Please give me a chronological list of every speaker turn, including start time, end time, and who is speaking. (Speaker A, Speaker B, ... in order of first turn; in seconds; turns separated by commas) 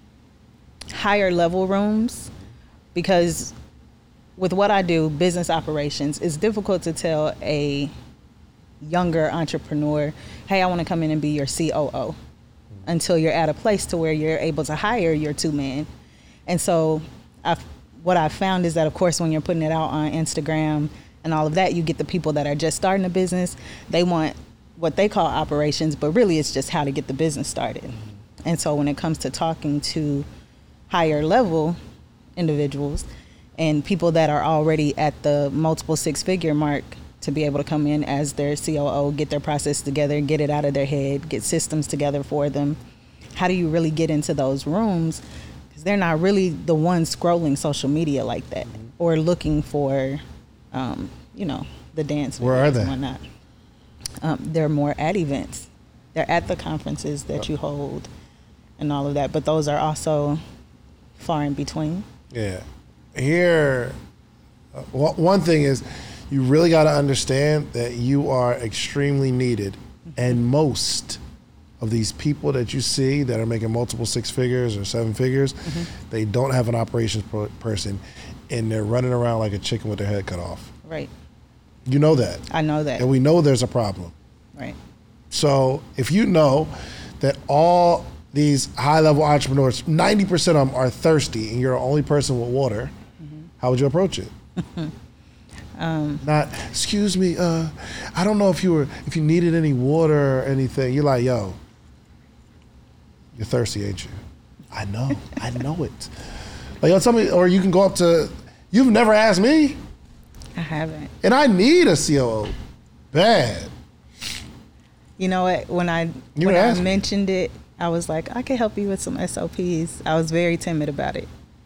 Speaker A: 0.9-2.3, Speaker A: 2.9-3.5, Speaker A: 4.4-7.9, Speaker A: 8.8-12.2, Speaker A: 12.8-15.9, Speaker A: 16.5-30.2, Speaker A: 30.9-31.8, Speaker A: 32.4-33.0, Speaker A: 33.6-42.8, Speaker A: 43.3-50.2, Speaker A: 50.7-53.2, Speaker B: 52.4-53.0, Speaker A: 54.2-58.1, Speaker A: 58.8-60.4, Speaker A: 61.2-62.0, Speaker B: 62.3-63.9, Speaker B: 64.7-71.2, Speaker B: 71.8-80.7, Speaker A: 80.8-81.1, Speaker B: 81.9-82.4, Speaker A: 82.5-83.1, Speaker B: 83.0-84.1, Speaker B: 85.3-92.9, Speaker B: 93.6-94.3, Speaker A: 94.6-94.9, Speaker A: 95.8-96.2, Speaker B: 96.2-101.6, Speaker B: 103.3-104.1, Speaker B: 104.7-106.1, Speaker B: 106.8-109.8, Speaker A: 110.5-111.1, Speaker B: 111.2-112.5, Speaker B: 113.1-113.7, Speaker A: 115.2-121.3, Speaker B: 116.3-116.9